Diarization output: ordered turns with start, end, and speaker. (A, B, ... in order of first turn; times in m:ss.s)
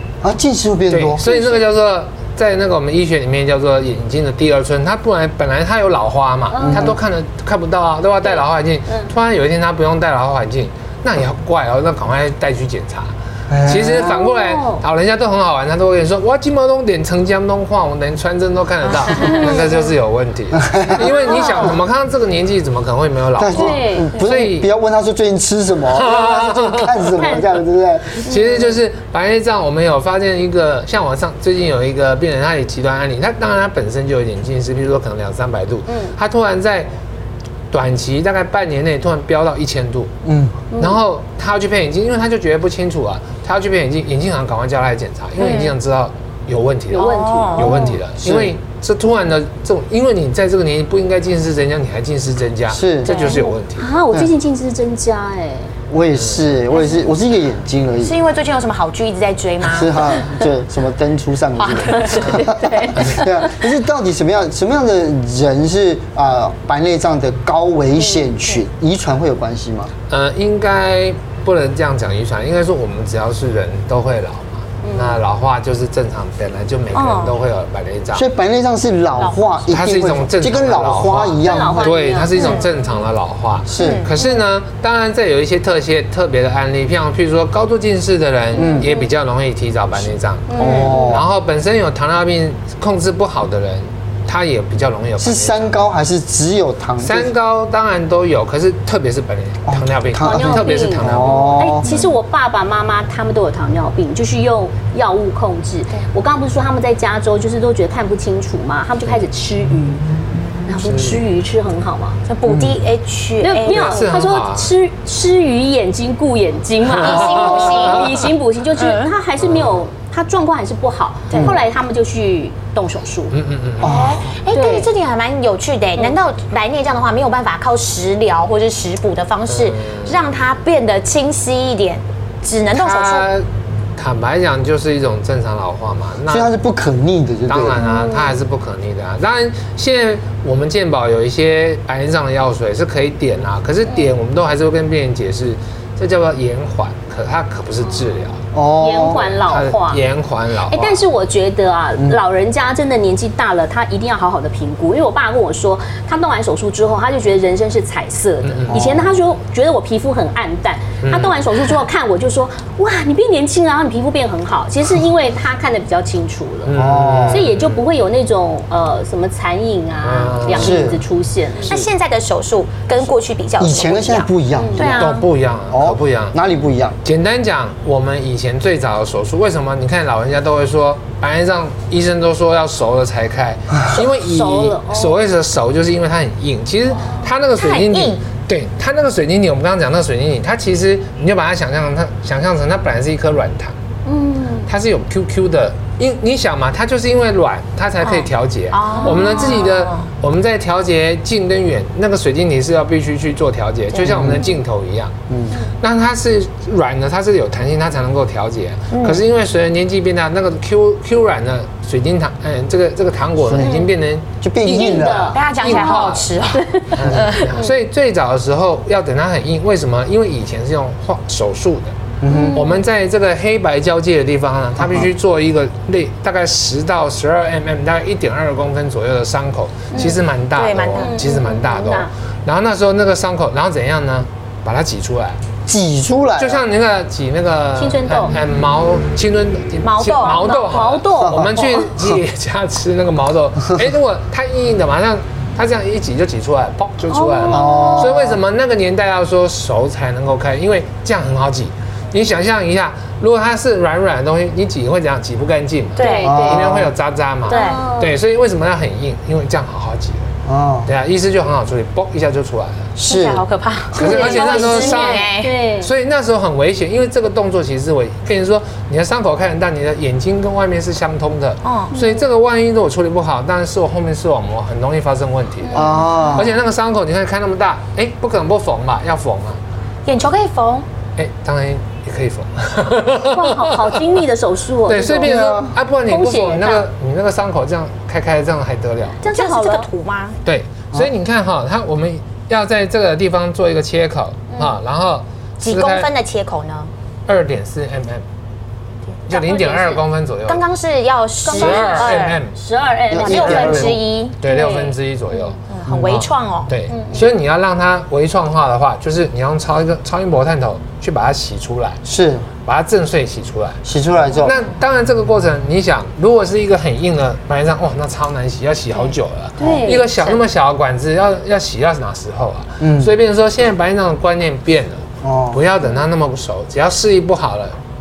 0:00.2-0:01.2 A
0:00.9-0:24.7 B
0:01.2-0:01.6 C
0:06.5-0:06.9 C
0:06.6-0:07.0 A
0:08.2-0:09.1 C
0:13.5-0:14.1 A
0:13.9-0:14.8 C
0:19.1-0:19.7 C
0:19.3-0:19.7 D
0:20.5-0:21.2 A
0:21.1-0:21.7 C
0:23.4-0:28.3 A
0:23.5-0:24.2 C
0:25.9-0:27.2 B
0:27.1-0:27.5 C
0:28.1-0:36.9 B
0:35.9-0:36.1 C
0:37.7-0:40.1 B
0:40.2-0:40.6 A
0:40.7-0:41.0 C
0:40.8-0:53.9 B
0:45.4-0:45.8 D
0:46.9-0:48.0 C
0:47.0-0:47.8 D
0:48.2-0:48.5 A
0:52.7-0:53.2 A
0:53.0-0:53.4 D
0:53.2-0:55.7 C
0:55.9-0:58.2 A
0:56.1-0:56.5 B
0:56.7-0:57.1 D
0:58.0-1:00.1 D
0:59.6-1:09.9 A
1:01.6-1:02.5 D
1:02.0-1:03.6 C
1:08.0-1:08.6 C
1:10.1-1:18.2 B
1:14.8-1:15.2 C
1:16.9-1:17.3 D
1:18.1-1:22.0 A
1:19.1-1:19.7 D
1:19.7-1:35.8 B
1:21.4-1:22.7 C
1:22.3-1:22.7 D
1:23.7-1:24.1 A
1:23.8-1:24.1 D
1:23.9-1:24.4 C
1:28.5-1:29.1 C
1:28.6-1:28.9 A
1:30.5-1:31.2 C
1:30.6-1:31.3 A
1:35.2-1:37.3 A
1:37.0-1:42.1 B
1:39.7-1:42.0 A
1:40.2-1:50.0 C
1:50.6-1:52.2 C
1:50.8-1:51.2 B
1:52.3-1:54.1 D
1:52.4-1:52.8 A
1:53.4-2:03.4 C
1:53.6-1:54.7 B
1:56.9-1:58.2 D
1:57.0-1:58.1 B
1:58.8-1:59.1 D
1:59.4-1:59.8 B
2:01.3-2:01.6 D
2:03.3-2:04.1 B
2:03.8-2:04.4 A
2:03.8-2:13.3 D
2:04.5-2:04.9 C
2:09.4-2:10.3 B
2:12.7-2:13.4 B
2:14.0-2:16.5 B
2:16.3-2:17.8 A
2:17.5-2:28.4 B
2:17.8-2:18.4 C
2:28.5-2:29.2 A
2:28.8-2:30.0 C
2:29.1-2:31.0 B
2:30.7-2:46.7 C
2:38.4-2:39.1 B
2:38.7-2:39.0 A
2:41.0-2:41.4 B
2:46.6-2:47.9 B
2:46.7-2:47.5 A
2:47.3-2:51.8 C
2:50.0-2:50.9 B
2:50.5-2:51.0 A
2:51.6-2:55.3 D
2:53.6-2:55.1 A
2:54.5-2:55.0 C
2:54.8-2:56.3 B
2:55.7-2:57.0 A
2:57.0-3:13.8 B
3:03.9-3:05.2 C
3:07.5-3:08.2 D
3:14.0-3:14.7 C
3:14.6-3:25.1 B
3:18.0-3:20.1 D
3:18.9-3:19.6 C
3:23.9-3:24.5 A
3:25.3-3:25.6 A
3:25.8-3:34.3 B
3:28.9-3:29.2 D
3:33.4-3:33.8 A
3:33.6-3:33.9 C
3:34.4-3:35.4 A
3:34.6-3:37.7 C
3:35.3-3:37.6 D
3:35.5-3:36.4 B
3:36.9-3:42.0 B
3:42.2-3:42.6 A
3:42.3-3:42.8 C
3:42.5-3:55.4 B
3:44.8-3:45.1 A
3:49.9-3:50.2 C
3:50.0-3:51.2 D
3:51.0-3:52.1 C
3:55.6-3:56.6 A
3:56.4-4:20.3 B
3:57.8-3:58.3 C
3:59.8-4:00.8 D
4:00.3-4:01.9 C
4:01.2-4:01.6 A
4:07.1-4:08.1 C
4:07.5-4:08.4 A
4:16.0-4:16.3 D
4:16.0-4:16.8 C
4:16.2-4:16.9 A
4:17.4-4:18.1 C
4:17.5-4:17.8 D
4:20.4-4:20.9 A
4:20.8-4:22.9 B
4:23.0-4:23.4 A
4:23.0-4:25.5 D
4:23.9-4:39.6 B
4:23.9-4:25.9 C
4:31.6-4:31.9 D
4:31.9-4:32.3 C
4:35.6-4:36.3 C
4:35.7-4:36.6 A
4:40.0-4:40.8 D
4:41.2-4:43.6 B
4:43.3-4:45.3 C
4:44.8-4:49.2 B
4:45.2-4:45.8 A
4:46.1-4:46.8 C
4:49.2-4:49.9 C
4:49.2-4:50.4 D
4:50.4-4:56.1 B
4:54.5-4:54.8 C
4:55.6-4:56.9 D
4:57.3-4:58.2 B
4:59.1-5:02.4 D
4:59.3-5:00.6 B
5:01.4-5:05.0 C
5:01.6-5:02.5 B
5:03.1-5:03.9 A
5:03.2-5:04.4 D
5:03.3-5:12.0 B
5:05.5-5:06.7 D
5:05.9-5:06.1 A
5:06.9-5:07.3 C
5:12.0-5:12.5 A
5:12.6-5:13.8 B
5:13.8-5:14.6 A
5:14.4-5:27.8 B
5:19.6-5:20.0 C
5:19.6-5:20.4 D
5:22.8-5:23.1 A
5:25.2-5:25.6 A